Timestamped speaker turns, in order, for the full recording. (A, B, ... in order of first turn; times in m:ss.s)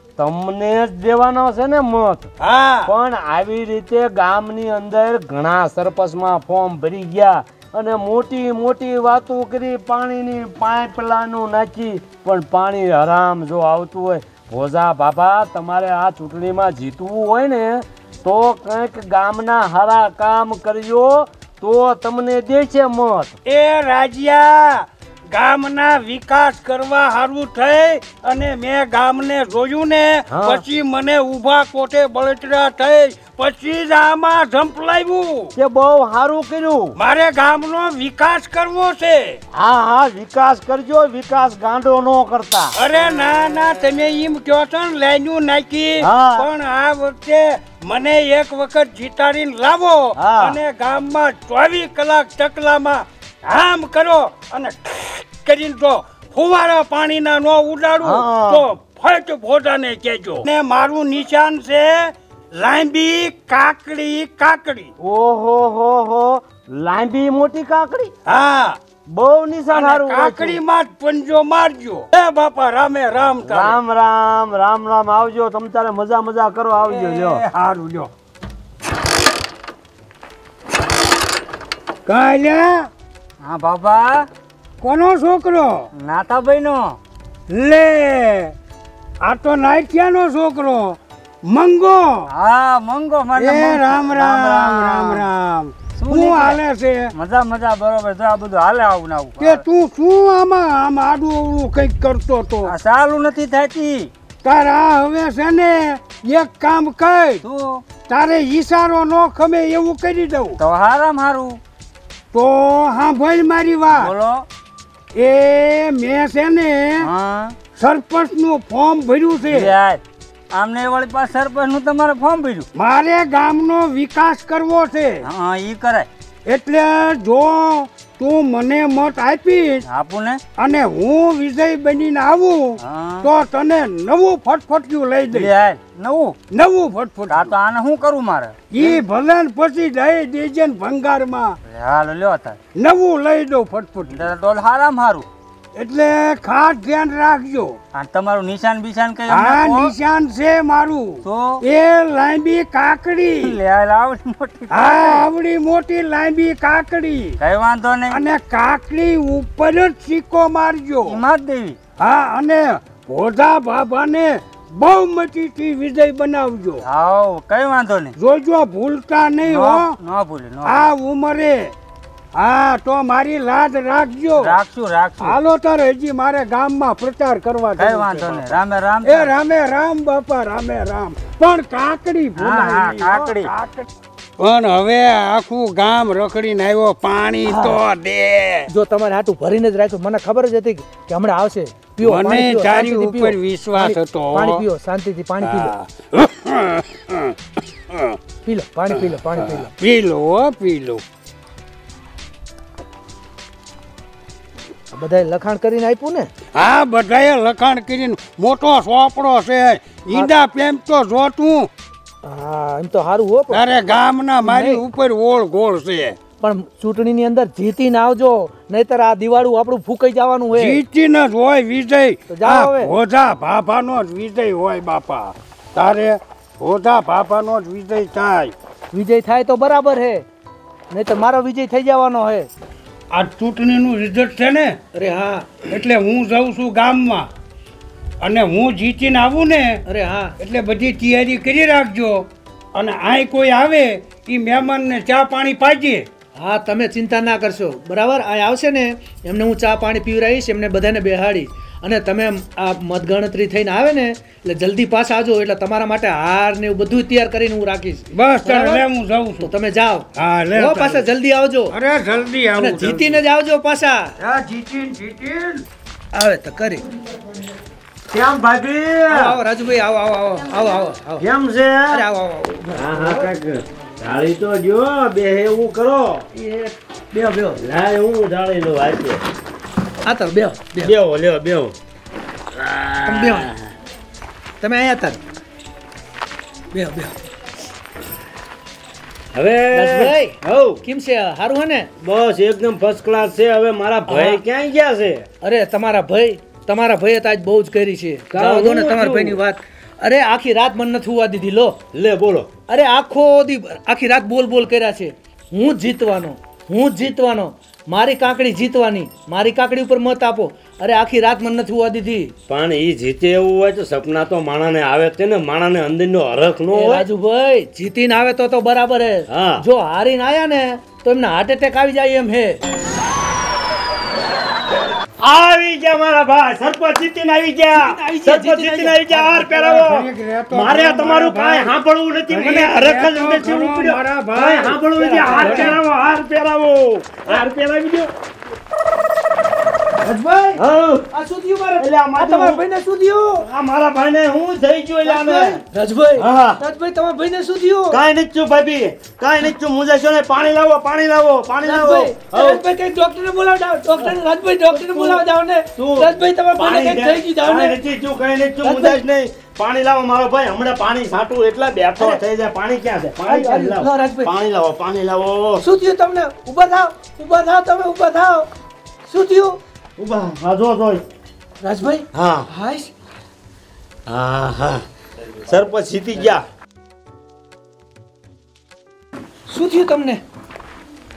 0:00.2-0:02.3 A
0:02.4-0:02.9 B
0:02.8-0:23.4 A
0:23.4-0:35.5 B
0:30.3-0:30.6 A
0:35.6-0:36.9 A
0:37.0-0:39.4 B
0:39.5-0:42.7 A
0:42.7-1:04.9 B
0:46.0-0:46.5 A
0:50.2-0:50.6 A
0:58.0-0:58.6 A
1:05.0-1:08.1 A
1:08.2-1:08.8 B
1:09.1-1:10.6 A
1:09.7-1:13.8 B
1:13.4-1:17.4 A
1:16.8-1:18.1 B
1:22.0-1:22.9 B
1:23.4-1:24.3 C
1:24.8-1:25.8 B
1:25.9-1:27.0 C
1:27.5-1:28.5 B
1:29.2-1:32.3 B
1:32.3-1:35.3 C
1:33.3-1:37.1 B
1:36.0-1:36.6 C
1:37.1-1:39.6 C
1:39.4-1:42.7 B
1:42.6-1:44.1 C
1:44.4-1:47.4 B
1:47.4-1:47.8 C
1:48.1-1:50.6 B
1:50.6-1:51.6 C
1:52.3-1:54.1 B
1:54.0-1:54.4 C
1:55.1-1:57.1 B
1:57.0-1:57.6 C
1:57.7-1:59.7 B
1:59.5-2:02.7 C
2:02.7-2:05.2 B
2:05.2-2:06.1 C
2:06.4-2:09.8 B
2:09.9-2:10.4 C
2:10.6-2:15.5 B
2:12.8-2:13.3 C
2:15.3-2:16.4 C
2:16.5-2:17.5 B
2:17.3-2:18.9 C
2:18.7-2:21.6 B
2:21.6-2:22.6 C
2:22.8-2:24.2 B
2:24.1-2:25.3 C
2:25.7-2:27.8 B
2:27.9-2:29.9 C
2:29.3-2:33.5 B
2:31.2-2:31.6 C
2:33.4-2:35.2 C
2:34.7-2:37.4 B
2:37.4-2:38.2 C
2:38.1-2:41.2 B
2:41.0-2:41.8 C
2:42.0-2:46.8 B
2:46.8-2:48.1 C
2:48.2-2:49.9 B
2:49.4-2:50.9 C
2:50.6-2:51.7 B
2:52.3-2:54.6 B
2:54.4-2:55.4 C
2:55.2-3:03.9 B
2:57.8-2:59.3 C
3:02.4-3:03.5 C
3:04.4-3:08.7 B
3:07.4-3:07.8 D
3:08.7-3:15.7 D
3:12.0-3:14.6 B
3:15.4-3:17.4 B
3:17.9-3:18.2 B
3:18.4-3:19.7 D
3:19.4-3:21.0 B
3:24.9-3:26.3 D
3:26.5-3:31.7 B
3:32.2-3:33.6 D
3:33.5-3:36.2 B
3:34.4-3:34.8 D
3:36.4-3:40.8 D
3:40.5-3:48.5 B
3:42.3-3:42.9 D
3:48.9-3:50.2 D
3:50.9-3:52.5 D
3:53.1-3:54.8 B
3:54.9-3:55.5 D
3:55.7-3:57.3 B
3:58.2-3:59.8 B
3:59.8-4:00.3 D
4:00.4-4:06.0 B
4:06.4-4:18.8 D
4:18.1-4:19.5 B
4:19.4-4:21.7 D
4:20.1-4:21.0 B
4:21.7-4:23.2 B
4:22.6-4:24.1 D
4:24.2-4:25.6 B
4:26.1-4:26.8 D
4:28.1-4:29.4 A
4:29.1-4:31.2 D
4:31.2-4:32.0 A
4:31.9-4:33.3 D
4:32.8-4:36.3 A
4:36.4-4:37.6 D
4:37.6-4:39.2 A
4:40.0-4:40.9 D
4:40.8-4:41.7 A
4:42.6-4:43.4 A
4:43.0-4:43.5 D
4:44.6-4:45.2 D
4:46.7-4:47.1 D
4:49.3-4:50.8 A
4:49.7-4:51.9 D
4:52.0-4:55.2 A
4:54.1-4:54.4 D
4:55.4-5:01.8 D
4:58.3-4:59.4 A
5:01.9-5:02.5 A
5:02.7-5:12.3 D
5:12.5-5:17.0 A
5:16.7-5:22.6 D
5:19.3-5:19.6 A
5:25.2-5:38.1 A
5:27.7-5:29.7 D
5:29.6-5:31.7 B
5:32.3-5:35.8 B
5:35.0-5:35.8 D
5:40.0-5:43.4 D
5:40.6-5:41.1 A
5:41.8-5:42.6 A
5:43.4-5:45.6 A
5:45.0-5:48.0 D
5:46.2-5:46.6 A
5:47.9-5:52.6 A
5:51.6-5:57.8 D
5:54.7-5:55.2 A
5:55.7-6:05.6 A
5:58.6-5:59.0 D
6:03.3-6:04.3 D
6:05.6-6:08.5 D
6:09.0-6:09.6 D
6:10.0-6:11.0 A
6:11.6-6:12.9 D
6:12.1-6:12.5 A
6:14.1-6:14.8 A
6:15.4-6:16.4 A
6:19.5-6:20.2 D